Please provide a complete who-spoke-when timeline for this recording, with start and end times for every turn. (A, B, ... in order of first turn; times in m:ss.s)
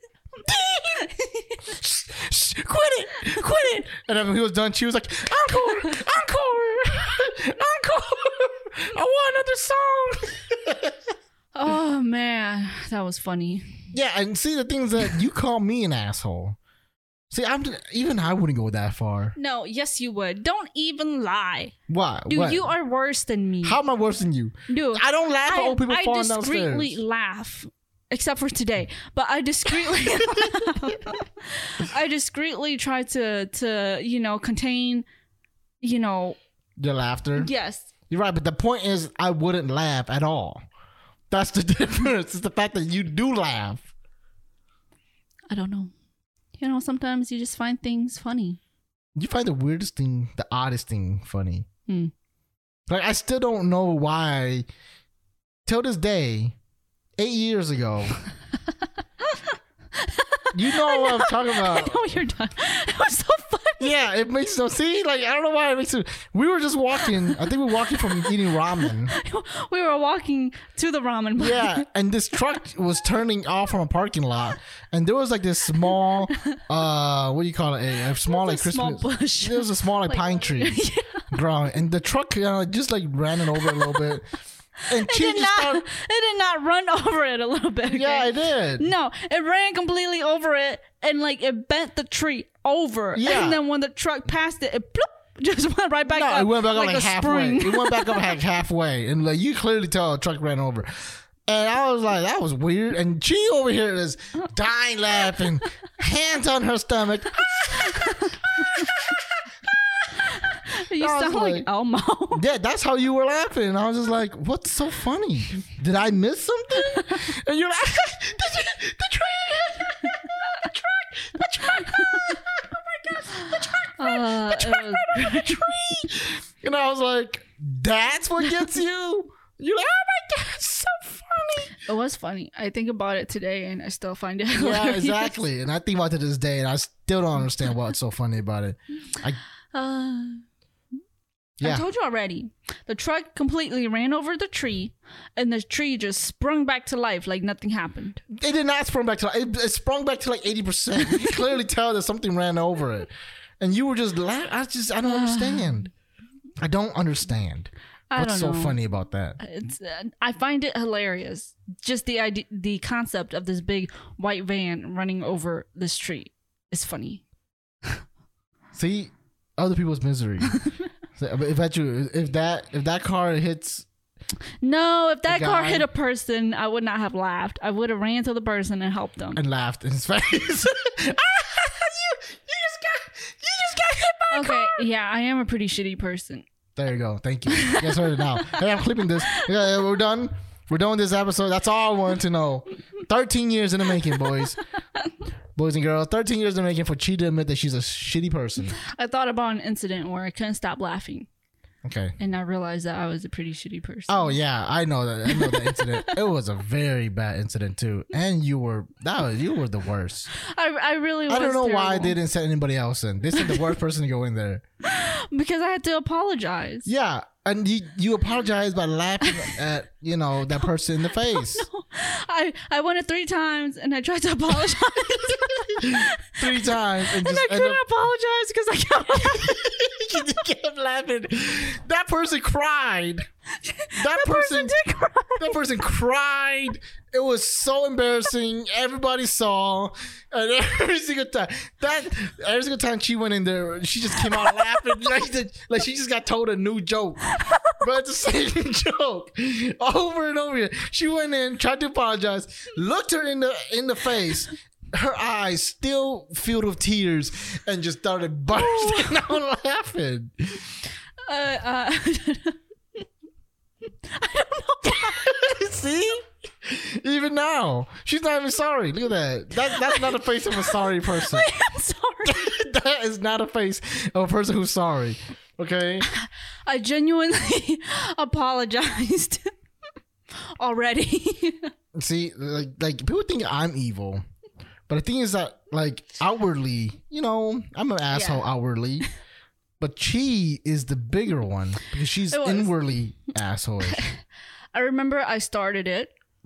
0:00.4-0:01.1 A
0:01.0-0:01.7 B
0:01.6-0:11.0 A
0:11.6-0:13.8 B
0:13.9-0:16.6 A
0:17.3-0:19.4 A
0:19.4-0:21.7 B
0:21.9-0:22.7 A
0:22.3-0:23.8 B
0:23.6-0:27.0 A
0:24.7-0:35.0 B
0:35.8-0:36.4 B
0:36.8-0:37.5 A
0:37.4-0:37.9 B
0:38.1-0:40.6 A
0:41.3-0:43.9 A
0:45.5-0:45.9 B
0:46.6-0:48.6 B
0:49.2-0:51.7 A
0:52.9-0:54.7 A
0:55.7-0:56.6 A
0:57.2-0:58.2 A
0:59.2-1:03.9 B
1:00.5-1:02.1 A
1:03.8-1:09.1 A
1:07.9-1:11.8 B
1:11.4-1:20.8 A
1:16.4-1:16.6 B
1:18.2-1:21.3 B
1:21.3-1:24.3 A
1:23.6-1:24.0 B
1:24.9-1:25.8 A
1:24.9-1:38.4 B
1:27.9-1:28.9 A
1:33.2-1:33.6 A
1:36.1-1:49.8 A
1:47.6-1:48.9 B
1:50.2-1:52.4 B
1:51.0-1:51.7 A
1:52.3-2:11.8 A
2:02.0-2:02.3 B
2:03.4-2:05.8 B
2:11.8-2:15.4 B
2:14.5-2:19.4 A
2:19.7-2:20.4 B
2:21.6-2:21.8 A
2:21.6-2:28.2 B
2:28.3-2:35.9 A
2:35.0-2:35.9 B
2:36.6-2:39.4 A
2:38.1-2:38.8 B
2:39.4-2:47.2 B
2:48.7-2:50.6 A
2:51.2-2:53.9 A
2:54.6-2:59.4 B
2:55.3-2:55.9 A
2:59.4-3:04.9 A
3:04.3-3:06.5 B
3:06.8-3:14.6 A
3:07.5-3:08.7 B
3:09.2-3:09.6 B
3:15.6-3:18.8 A
3:18.8-3:21.3 B
3:21.8-3:22.2 A
3:22.2-3:24.4 B
3:24.1-3:30.3 A
3:25.3-3:26.2 B
3:30.3-3:32.2 B
3:31.3-3:34.6 A
3:33.4-3:33.6 B
3:34.8-3:36.9 B
3:36.9-3:41.7 A
3:39.3-3:39.5 B
3:41.2-3:50.3 B
3:45.7-3:47.8 A
3:49.3-3:53.2 A
3:53.6-3:55.6 B
3:54.0-3:54.8 A
3:55.4-4:20.7 A
4:07.4-4:07.8 B
4:18.6-4:19.1 B
4:21.2-4:22.6 B
4:24.0-4:25.5 B
4:25.0-4:31.5 A
4:29.6-4:32.5 B
4:32.2-4:36.1 A
4:36.1-4:39.5 B
4:40.6-4:41.7 B
4:42.0-4:44.2 A
4:44.9-4:49.1 A
4:48.1-4:48.5 B
4:49.8-4:54.0 A
4:52.3-4:52.7 B
4:53.9-4:54.2 B
4:54.7-4:56.1 B